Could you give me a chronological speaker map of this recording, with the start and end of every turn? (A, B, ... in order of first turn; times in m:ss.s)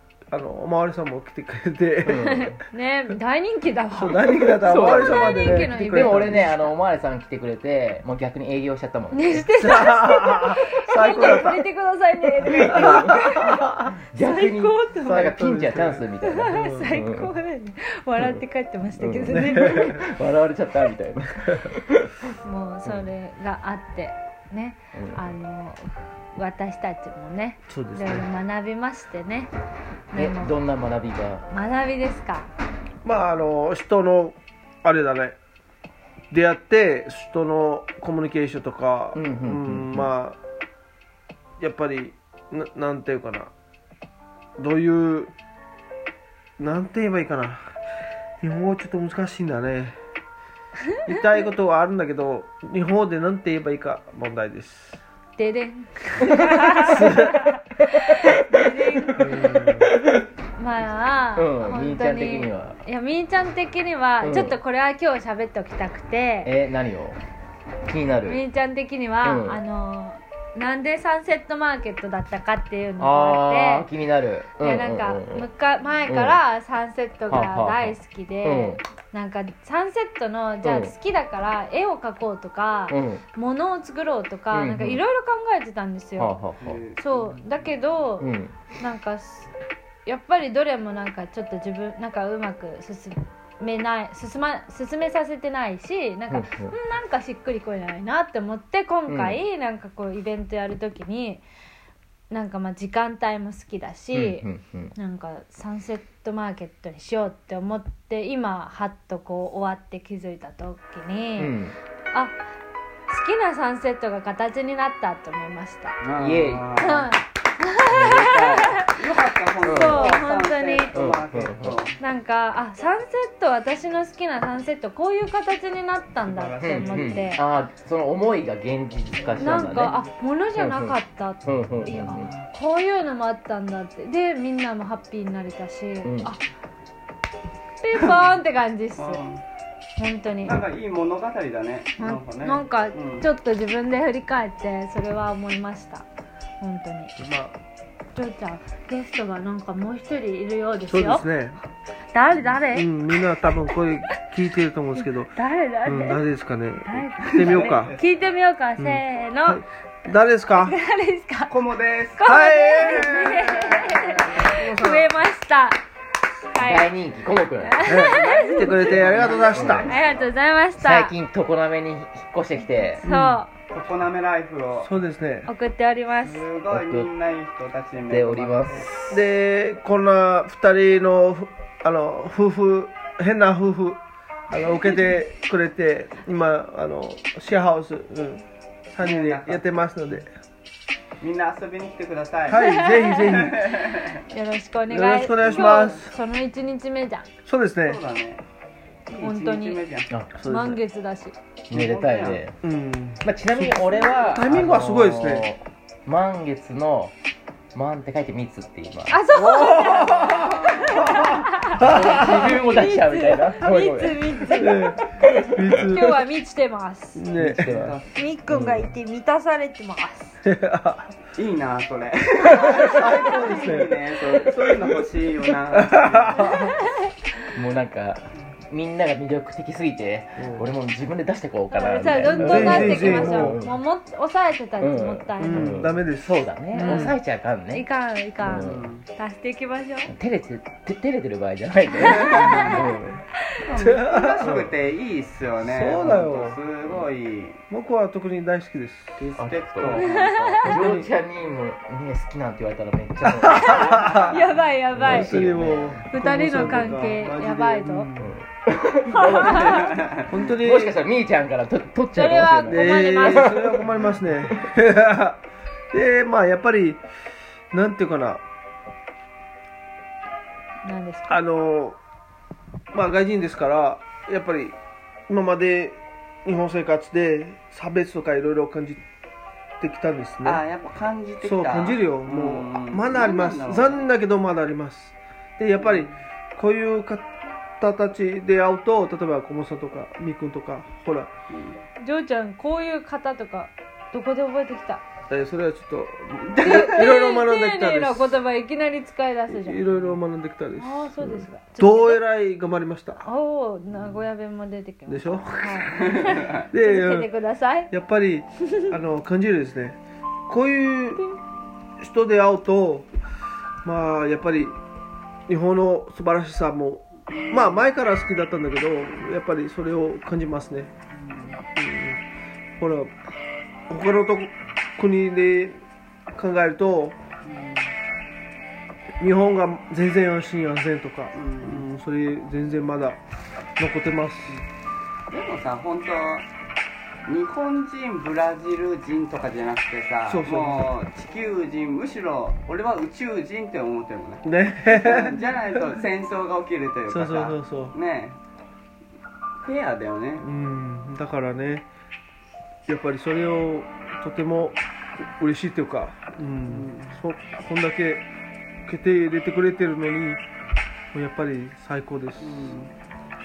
0:00.3-0:02.4 A
0:02.0-0:02.6 B
0:02.1-0:06.7 C
0:03.9-0:06.6 A
0:04.6-0:09.9 B
0:09.1-0:13.6 C
0:09.6-0:11.7 A
0:12.4-0:13.9 A
0:12.4-0:17.3 B
0:14.2-0:15.3 C
0:15.0-0:16.8 A
0:16.2-0:20.0 C
0:19.0-0:22.1 B
0:19.3-0:20.0 A
0:22.2-0:29.5 C
0:22.8-0:23.1 B
0:24.9-0:25.3 B
0:27.7-0:28.3 A
0:30.1-0:30.6 C
0:30.1-0:31.5 B
0:31.5-0:32.5 C
0:33.0-0:35.4 A
0:36.3-0:40.4 A
0:39.1-0:40.1 B
0:41.6-0:43.5 A
0:44.6-0:45.3 A
0:46.6-0:47.8 A
0:48.4-0:50.0 A
0:51.0-0:55.0 A
0:55.4-0:59.6 C
0:56.2-0:56.9 B
0:56.7-0:57.6 A
0:59.1-1:00.0 B
0:59.2-0:59.9 A
1:00.6-1:06.5 C
1:01.3-1:02.8 B
1:04.2-1:04.6 B
1:06.4-1:07.2 B
1:07.8-1:08.4 B
1:08.2-1:13.9 C
1:09.2-1:09.6 B
1:13.0-1:15.5 B
1:14.6-1:26.4 C
1:16.1-1:16.4 B
1:17.3-1:18.8 B
1:20.6-1:20.9 B
1:22.9-1:23.2 B
1:24.5-1:25.0 B
1:26.2-1:26.8 B
1:26.6-1:27.7 D
1:27.0-1:29.5 C
1:28.2-1:28.6 B
1:30.0-1:41.4 C
1:36.3-1:36.7 B
1:39.1-1:39.4 B
1:42.3-1:51.6 C
1:44.1-1:44.9 B
1:51.4-1:51.8 B
1:53.1-1:56.0 C
1:56.0-1:57.1 D
1:56.2-1:56.8 B
1:56.8-1:58.9 C
1:57.9-1:58.8 B
1:58.9-2:02.0 D
1:59.6-2:00.2 B
1:59.6-2:00.9 C
2:00.9-2:01.8 B
2:02.0-2:07.4 C
2:06.2-2:07.3 D
2:06.6-2:10.0 B
2:09.2-2:09.9 D
2:09.4-2:16.4 C
2:10.5-2:12.3 B
2:16.0-2:16.3 B
2:17.8-2:19.2 C
2:19.0-2:19.4 D
2:20.0-2:20.6 C
2:20.4-2:23.2 D
2:22.0-2:26.0 C
2:26.6-2:27.1 C
2:27.2-2:27.5 A
2:28.2-2:31.3 C
2:30.9-2:31.6 A
2:32.1-2:33.5 C
2:32.7-2:35.3 A
2:35.0-2:36.2 C
2:35.8-2:38.0 A
2:36.9-2:39.6 C
2:37.3-2:38.0 D
2:38.8-2:40.8 A
2:40.6-2:41.5 C
2:41.5-2:42.3 D
2:42.2-2:45.8 C
2:42.2-2:45.2 A
2:42.8-2:43.6 D
2:46.5-2:46.9 C
2:46.6-2:47.9 B
2:47.6-2:48.9 C
2:47.8-2:49.9 A
2:48.1-2:50.3 D
2:49.5-2:49.9 B
2:49.8-2:51.1 C
2:50.8-2:53.0 B
2:52.9-2:53.5 C
2:53.0-2:53.4 A
2:53.7-2:55.0 D
2:54.8-2:55.5 A
2:55.4-2:56.4 C
2:56.2-2:58.9 D
2:56.7-2:57.1 B
2:58.1-2:59.2 B
2:59.1-3:10.3 A
3:09.0-3:09.6 D
3:11.2-3:14.2 D
3:12.5-3:13.8 A
3:12.5-3:13.2 C
3:14.3-3:17.3 C
3:14.9-3:16.1 A
3:15.4-3:16.0 D
3:17.4-3:18.0 A
3:17.8-3:18.4 D
3:19.1-3:20.1 D
3:19.2-3:19.8 C
3:20.4-3:20.8 A
3:20.4-3:21.4 C
3:21.7-3:22.6 B
3:21.7-3:22.4 D
3:22.6-3:25.5 A
3:23.2-3:27.1 B
3:27.7-3:29.2 B
3:29.1-3:34.9 C
3:29.3-3:32.6 A
3:30.8-3:34.4 B
3:34.5-3:36.2 A
3:35.8-3:37.2 C
3:37.2-3:38.0 A
3:37.4-3:37.9 B
3:37.6-3:38.2 D
3:38.1-3:40.4 C
3:38.5-3:38.9 B
3:40.4-3:41.1 A
3:41.3-3:46.5 D
3:42.4-3:45.0 A
3:42.6-3:43.8 C
3:45.7-3:46.8 A
3:46.5-3:47.0 C
3:47.5-3:53.8 B
3:50.4-3:50.7 A
3:51.7-3:55.8 C
3:52.3-3:53.6 A
3:54.8-3:57.8 B
3:55.4-3:57.2 A
3:56.7-3:57.1 C
3:57.7-4:00.1 C
3:58.4-3:58.9 B
3:58.5-3:59.0 D
4:00.1-4:03.2 B
4:02.0-4:02.8 C
4:02.0-4:02.8 D
4:03.6-4:07.6 D
4:03.8-4:04.7 A
4:05.6-4:06.6 A
4:06.0-4:06.3 B
4:07.7-4:09.2 A
4:09.2-4:10.6 D
4:09.4-4:16.9 B
4:10.0-4:10.6 C
4:10.6-4:11.1 A
4:13.2-4:14.3 A
4:13.5-4:15.5 C
4:15.0-4:18.4 A
4:16.1-4:18.1 C
4:18.2-4:19.9 B
4:19.1-4:20.0 C
4:19.2-4:20.3 D
4:19.5-4:20.9 A
4:20.4-4:23.8 B
4:22.1-4:23.8 C
4:22.7-4:27.0 A
4:27.7-4:28.4 A
4:30.8-4:31.4 C
4:31.3-4:32.0 A
4:32.9-4:34.8 A
4:35.3-4:39.0 A
4:39.8-4:40.6 A
4:40.4-4:44.1 D
4:41.4-4:51.3 A
4:45.8-4:46.1 D
4:51.5-4:51.8 D
4:52.0-4:55.0 C
4:55.3-4:58.4 A
4:56.6-4:59.8 C
4:59.5-5:03.2 A
4:59.9-5:00.2 D
5:00.8-5:02.2 C
5:03.2-5:07.9 C
5:03.9-5:04.2 D
5:05.1-5:07.3 A
5:06.0-5:06.6 D
5:07.9-5:11.2 A
5:08.7-5:08.9 C
5:12.0-5:13.1 A
5:13.8-5:14.8 A
5:15.5-5:20.9 A
5:17.3-5:17.8 D
5:21.1-5:21.6 D
5:21.7-5:22.2 A
5:22.8-5:23.1 A
5:23.9-5:25.8 A
5:26.3-5:27.2 A
5:27.4-5:27.9 D
5:29.2-5:33.2 A
5:31.3-5:31.9 D
5:33.8-5:34.6 A
5:35.3-5:36.5 D
5:37.2-5:48.4 D
5:40.2-5:40.9 A
5:44.4-5:45.8 A
5:47.1-5:47.9 A
5:49.6-5:50.5 D
5:50.4-5:51.9 A
5:52.9-5:58.2 A
5:56.6-5:57.2 D
5:58.8-6:00.4 A
6:01.1-6:02.8 A
6:02.4-6:02.9 D